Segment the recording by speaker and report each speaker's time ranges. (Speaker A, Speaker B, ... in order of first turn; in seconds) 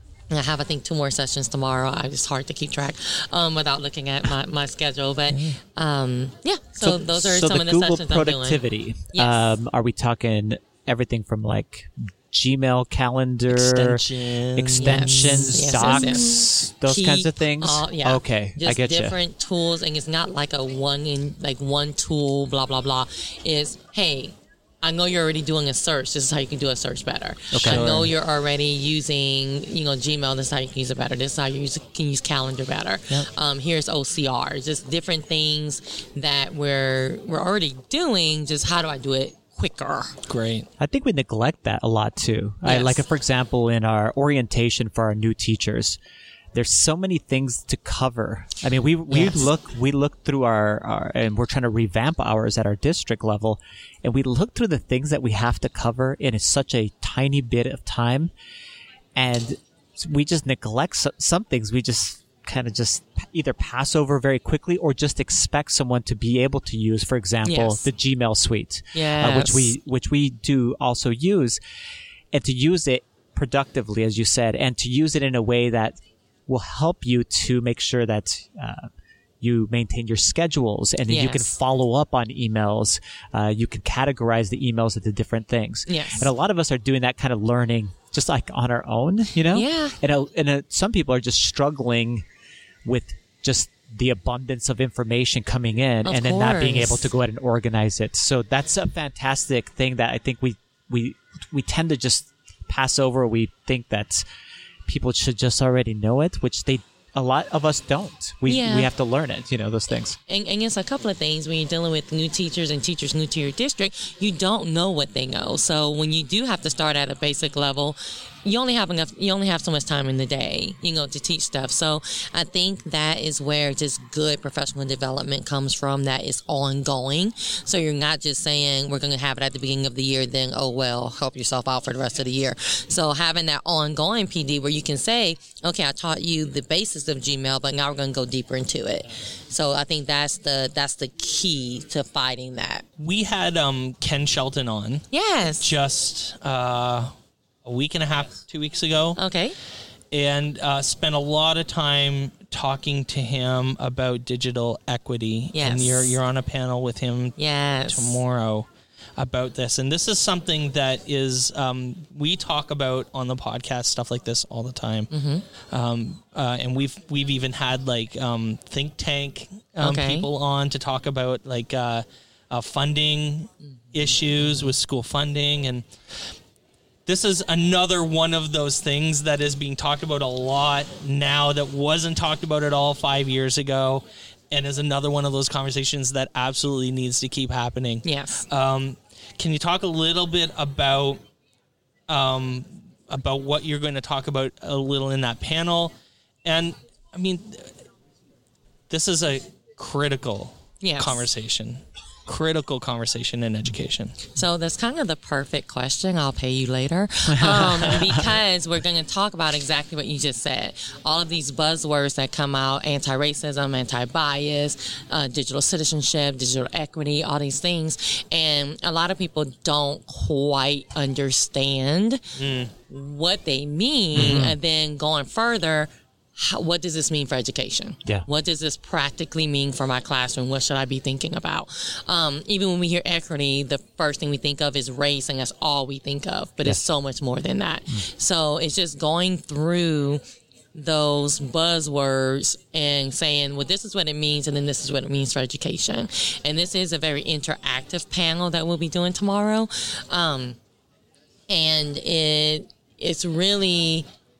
Speaker A: 0.3-8.6, 9.1-9.5, 14.8-40.1, 42.6-43.0, 49.1-49.5, 67.4-67.9, 68.9-69.7, 81.1-81.5, 85.9-86.3, 89.5-90.0, 96.0-97.1, 108.5-108.9, 110.3-142.8, 145.1-145.7, 149.2-149.6, 155.5-156.2, 157.4-158.2, 165.1-165.4, 169.8-170.3, 173.9-174.7, 188.0-188.4, 200.8-201.2, 204.3-240.2, 240.7-250.6, 251.5-254.1
Speaker B: 5.3-5.6, 13.5-16.2, 27.6-28.1, 40.3-40.7, 143.0-145.1, 145.6-147.1, 147.6-149.2, 150.1-157.4, 157.9-165.1, 165.7-175.9, 177.1-191.2, 192.1-195.9, 196.4-197.7, 198.9-204.2, 222.3-222.7
Speaker C: 6.8-19.2, 27.5-28.1, 40.8-46.0, 46.5-58.3, 59.1-71.6, 72.3-78.9, 79.4-92.2, 92.8-104.2, 104.8-110.2, 207.3-208.2, 224.1-224.6